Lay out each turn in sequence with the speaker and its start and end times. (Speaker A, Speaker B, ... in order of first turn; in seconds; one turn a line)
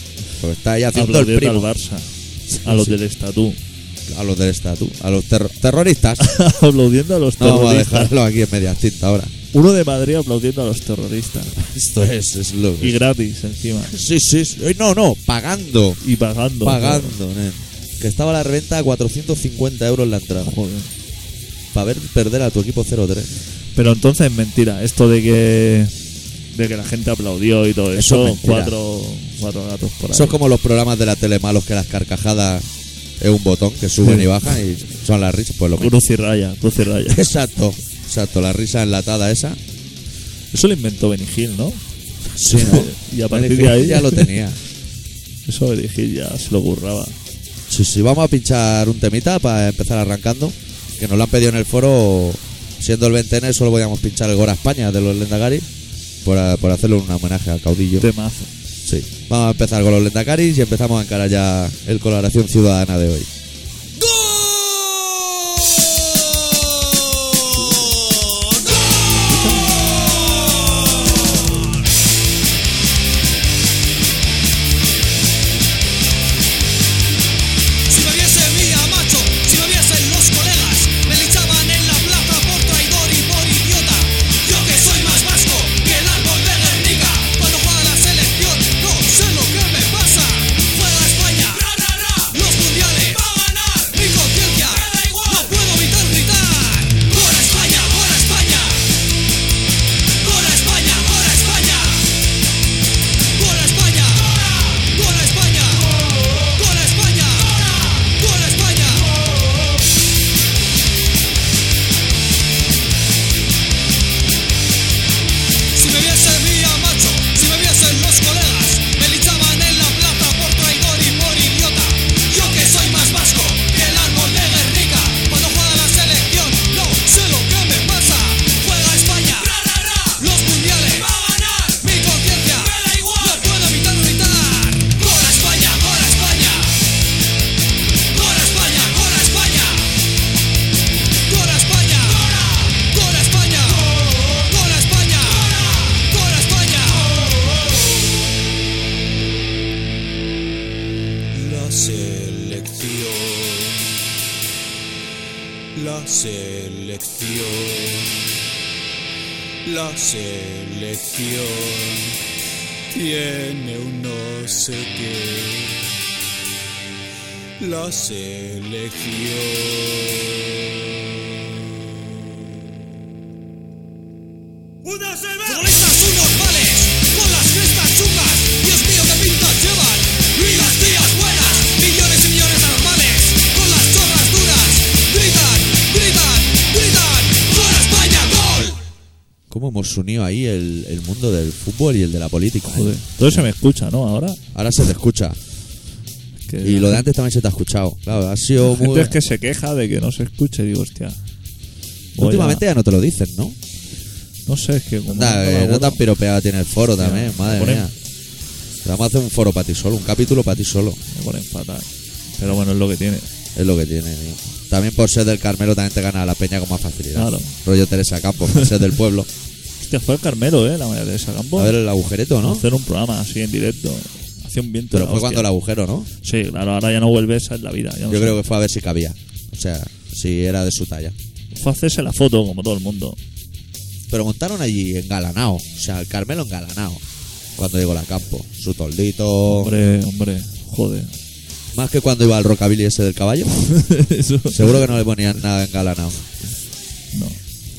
Speaker A: 0.4-1.7
Speaker B: 0.9-2.1
Speaker A: 2.5-3.0
Speaker B: 2.6-3.6
Speaker A: 4.1-6.3
Speaker B: 6.2-8.1
Speaker A: 7.4-9.3
Speaker B: 9.5-11.6
Speaker A: 11.6-13.0
Speaker B: 12.8-13.9
Speaker A: 13.9-16.0
Speaker B: 16.0-17.1
Speaker A: 16.6-20.6
Speaker B: 20.4-20.9
Speaker A: 21.7-23.3
Speaker B: 23.8-25.9
Speaker B: 26.5-30.4
Speaker A: 27.9-28.8
Speaker A: 30.1-32.7
Speaker A: 33.2-36.0
Speaker B: 34.0-34.3
Speaker B: 35.8-37.2
Speaker A: 37.1-39.6
Speaker B: 40.5-41.8
Speaker A: 42.2-44.6
Speaker B: 42.5-44.3
Speaker B: 45.5-47.2
Speaker A: 47.7-55.7
Speaker A: 56.2-58.1
Speaker B: 58.0-58.5
Speaker A: 58.9-63.3
Speaker B: 67.6-68.0
Speaker B: 69.3-69.7
Speaker C: 77.9-98.9
Speaker C: 100.2-102.1
Speaker C: 103.3-109.3
Speaker C: 115.7-136.8
Speaker C: 138.1-139.9
Speaker C: 141.3-147.2
Speaker D: 151.3-154.1
Speaker D: 155.7-158.4
Speaker D: 159.7-162.2
Speaker D: 162.9-166.0
Speaker D: 167.6-170.9
Speaker D: 174.9-175.4
Speaker C: 175.4-188.8
Speaker A: 189.5-193.5
Speaker B: 192.6-194.4
Speaker A: 194.5-195.4
Speaker B: 196.4-197.1
Speaker A: 196.6-199.2
Speaker B: 198.6-201.2
Speaker B: 202.2-202.6
Speaker A: 202.2-203.6
Speaker B: 204.5-206.0
Speaker A: 205.1-207.9
Speaker B: 207.0-207.9
Speaker A: 208.8-211.0
Speaker B: 211.1-213.3
Speaker A: 213.6-219.3
Speaker B: 217.1-217.6
Speaker B: 219.8-221.8
Speaker A: 221.6-222.7
Speaker B: 222.4-225.5
Speaker A: 224.9-226.1
Speaker B: 226.2-228.4
Speaker A: 228.1-231.2
Speaker B: 231.5-233.2
Speaker A: 234.1-237.0
Speaker A: 237.6-239.7
Speaker B: 239.5-241.1
Speaker A: 241.7-243.5
Speaker B: 243.6-244.9
Speaker A: 244.5-246.2
Speaker B: 247.1-247.4